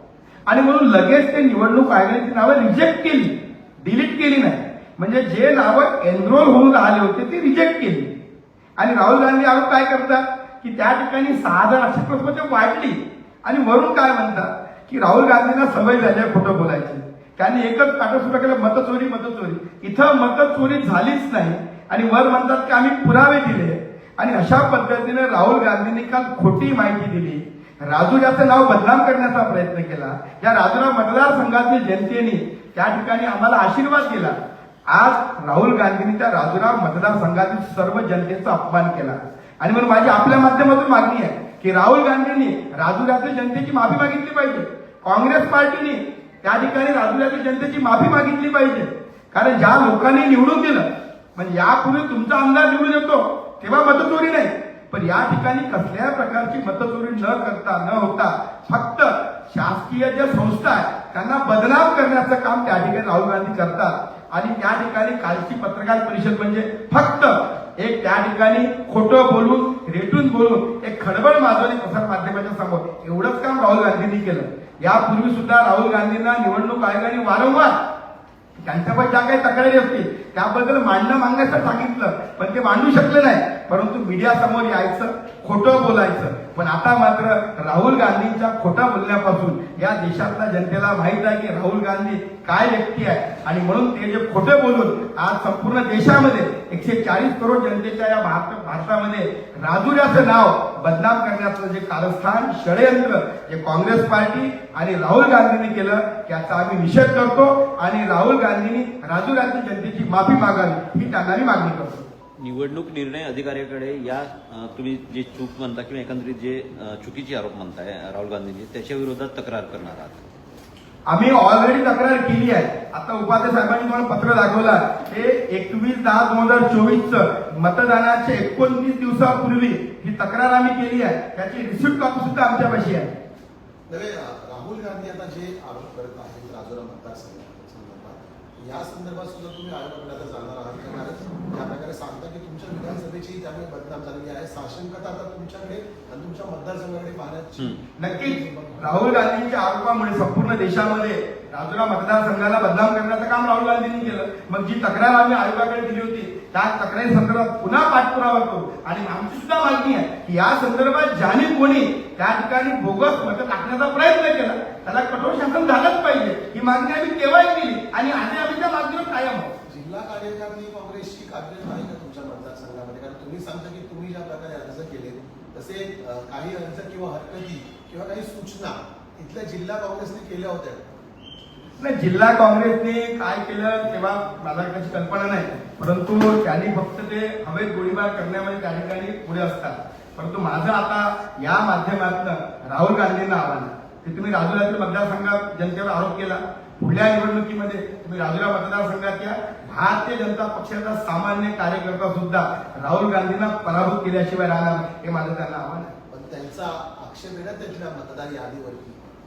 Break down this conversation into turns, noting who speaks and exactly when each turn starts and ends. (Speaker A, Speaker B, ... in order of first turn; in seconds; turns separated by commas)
Speaker A: 0.5-8.1, Speaker A: 8.8-34.3, Speaker A: 34.9-77.7, Speaker A: 78.6-112.1, Speaker B: 112.4-120.2, Speaker A: 121.1-133.1, Speaker C: 133.9-149.1, Speaker A: 148.0-169.5, Speaker C: 169.7-180.9, Speaker A: 181.8-205.9, Speaker C: 206.1-209.1